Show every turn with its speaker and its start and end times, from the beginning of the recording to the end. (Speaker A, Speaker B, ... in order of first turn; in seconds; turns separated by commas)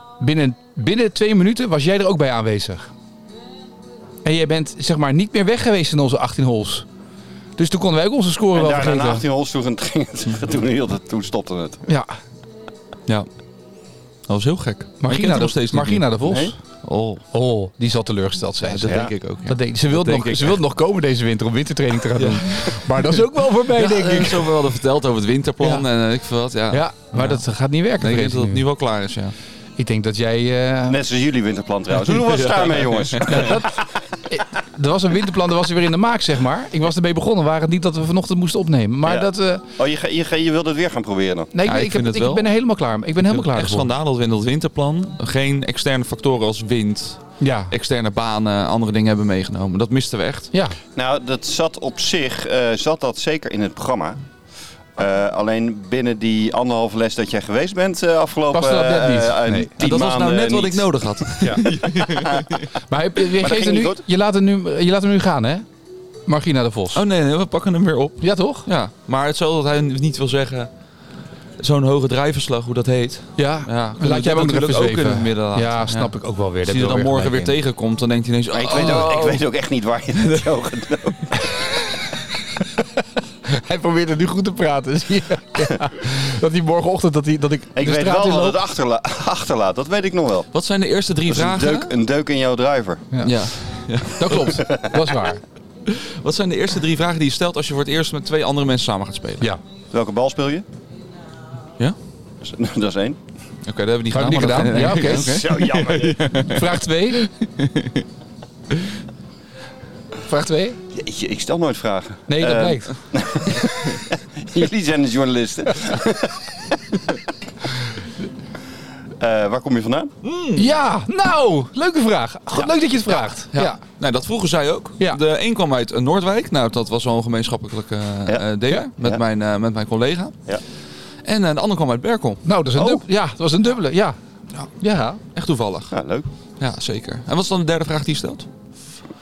Speaker A: 0.2-2.9, Speaker A: 4.2-6.9, Speaker A: 7.6-9.2, Speaker B: 8.5-11.8, Speaker A: 11.9-12.1, Speaker C: 14.3-16.1, Speaker A: 15.0-16.6, Speaker B: 16.3-16.5, Speaker C: 16.8-17.2, Speaker A: 17.3-24.6, Speaker C: 18.6-20.6, Speaker B: 18.9-19.1, Speaker C: 22.2-27.4, Speaker A: 25.6-25.9, Speaker A: 26.7-28.6, Speaker C: 28.0-29.4, Speaker A: 29.8-31.0, Speaker B: 30.9-33.8, Speaker C: 32.0-33.6, Speaker A: 33.3-39.6, Speaker B: 39.0-41.5, Speaker A: 41.5-43.9, Speaker C: 41.7-42.5, Speaker C: 43.3-50.5, Speaker A: 47.4-47.7, Speaker A: 50.5-50.8, Speaker B: 51.0-54.2, Speaker B: 55.0-62.7, Speaker A: 58.5-59.7, Speaker C: 59.8-62.7, Speaker A: 61.4-61.7, Speaker A: 62.8-65.7, Speaker B: 63.4-64.0, Speaker A: 66.3-67.0, Speaker C: 66.9-70.7, Speaker A: 68.2-68.7, Speaker C: 71.6-76.1, Speaker A: 73.4-77.6, Speaker C: 76.6-79.4, Speaker B: 78.5-81.4, Speaker A: 78.7-79.1, Speaker A: 83.5-88.6, Speaker B: 87.8-90.5, Speaker C: 90.5-92.0, Speaker B: 91.3-93.1, Speaker A: 93.1-93.5, Speaker C: 93.2-94.6, Speaker A: 94.0-95.4, Speaker B: 94.6-95.1, Speaker C: 95.9-99.5, Speaker B: 99.9-100.7, Speaker B: 102.4-103.2, Speaker C: 103.7-108.0, Speaker A: 104.1-105.5, Speaker B: 104.9-106.4, Speaker A: 106.5-107.2, Speaker A: 110.2-110.8, Speaker B: 110.9-117.2, Speaker A: 112.3-112.9, Speaker B: 119.2-120.1, Speaker C: 120.2-120.7, Speaker A: 120.5-123.8, Speaker C: 122.6-130.4, Speaker C: 131.2-132.4, Speaker A: 132.4-134.2, Speaker B: 132.8-133.0, Speaker A: 134.8-135.2, Speaker C: 135.3-136.0, Speaker B: 135.9-136.3, Speaker C: 136.6-138.5